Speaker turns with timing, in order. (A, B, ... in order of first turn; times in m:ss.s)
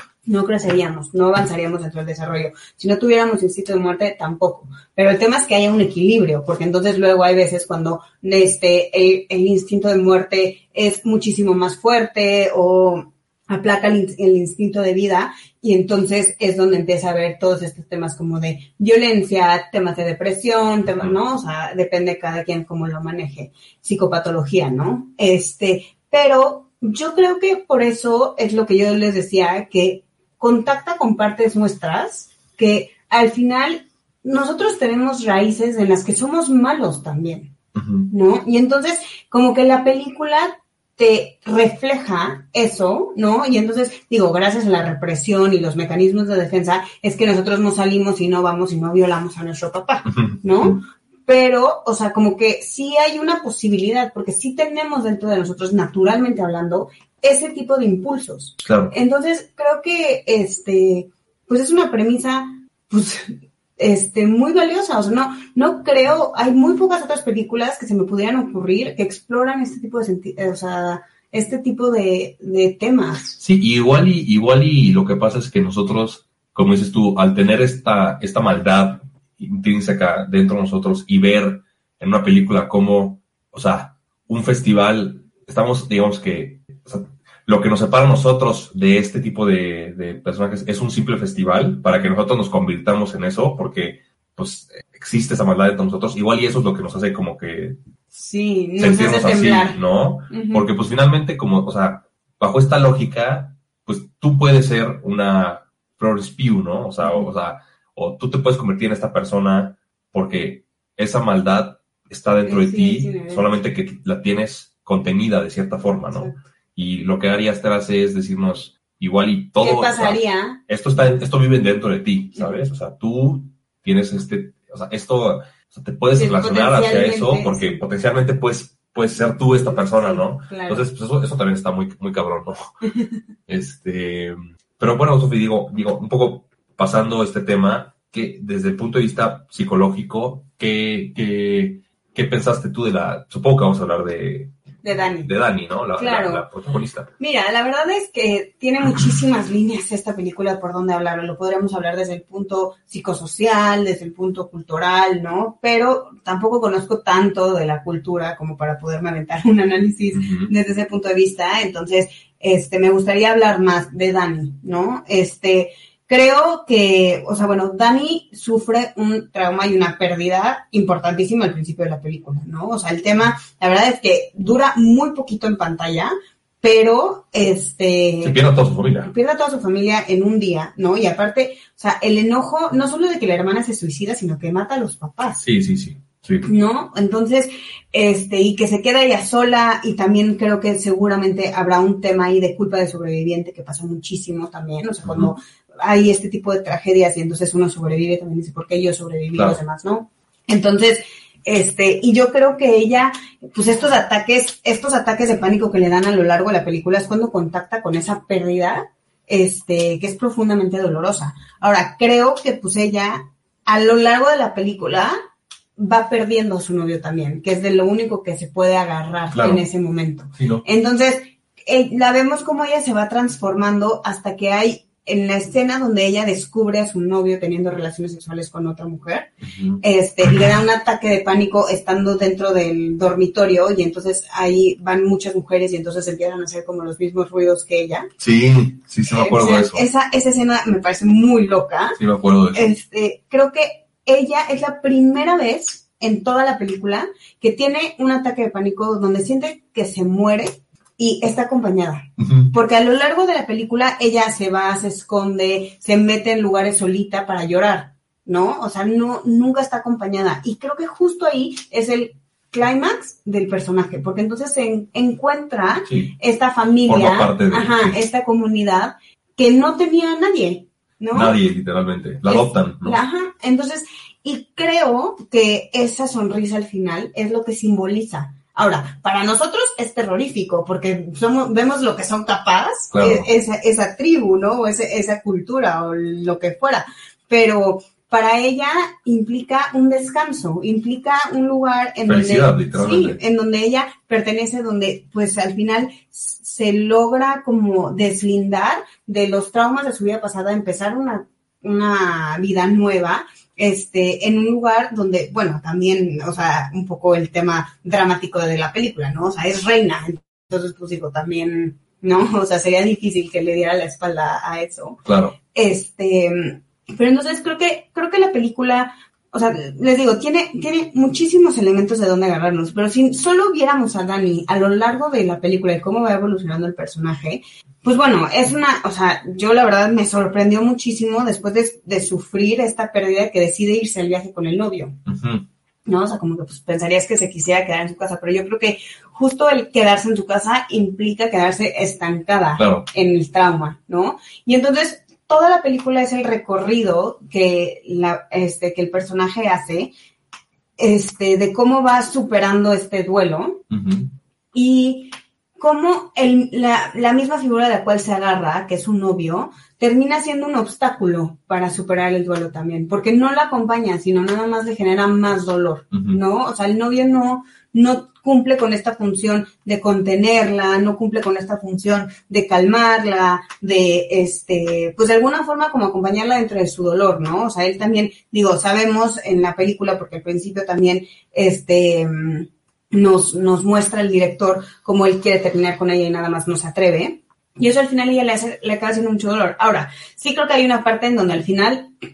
0:00.3-0:37.5 A
0:37.8-0:38.1 B
0:38.1-1:13.4 A
0:50.1-0:50.8 B
0:58.6-0:58.9 B
1:13.4-1:37.8 B
1:38.1-1:40.7 A
1:38.8-2:12.7 B
1:47.0-1:47.3 A
1:52.4-1:53.5 A
1:59.6-2:00.6 A
2:06.2-2:07.8 A
2:09.6-2:10.8 A
2:13.5-2:24.5 B
2:24.8-2:25.3 A
2:25.2-2:27.1 B
2:26.0-2:26.4 A
2:27.2-2:58.4 A
2:40.1-2:40.5 B
2:58.2-2:59.1 B
2:59.0-3:05.4 A
3:05.4-3:06.5 B
3:06.4-3:35.2 A
3:15.0-3:15.3 B
3:19.4-3:19.6 B
3:35.8-3:58.1 A
3:39.3-3:39.6 B
3:40.4-3:40.6 B
3:49.4-3:50.5 B
3:58.2-3:59.9 B
3:59.1-4:02.0 A
4:02.0-4:02.7 B
4:02.5-4:31.4 A
4:12.2-4:12.5 B
4:25.9-4:26.2 B
4:26.9-4:28.1 B
4:31.1-4:33.0 B
4:32.3-5:15.0 A
4:42.9-4:43.3 B
4:52.1-4:53.2 B
5:15.0-5:15.4 B
5:15.5-5:35.0 A
5:35.1-5:35.4 B
5:35.9-5:49.9 A
5:42.6-5:42.9 B
5:50.8-5:53.6 A
5:53.7-5:54.1 B
5:54.5-6:31.9 A
6:05.9-6:06.2 B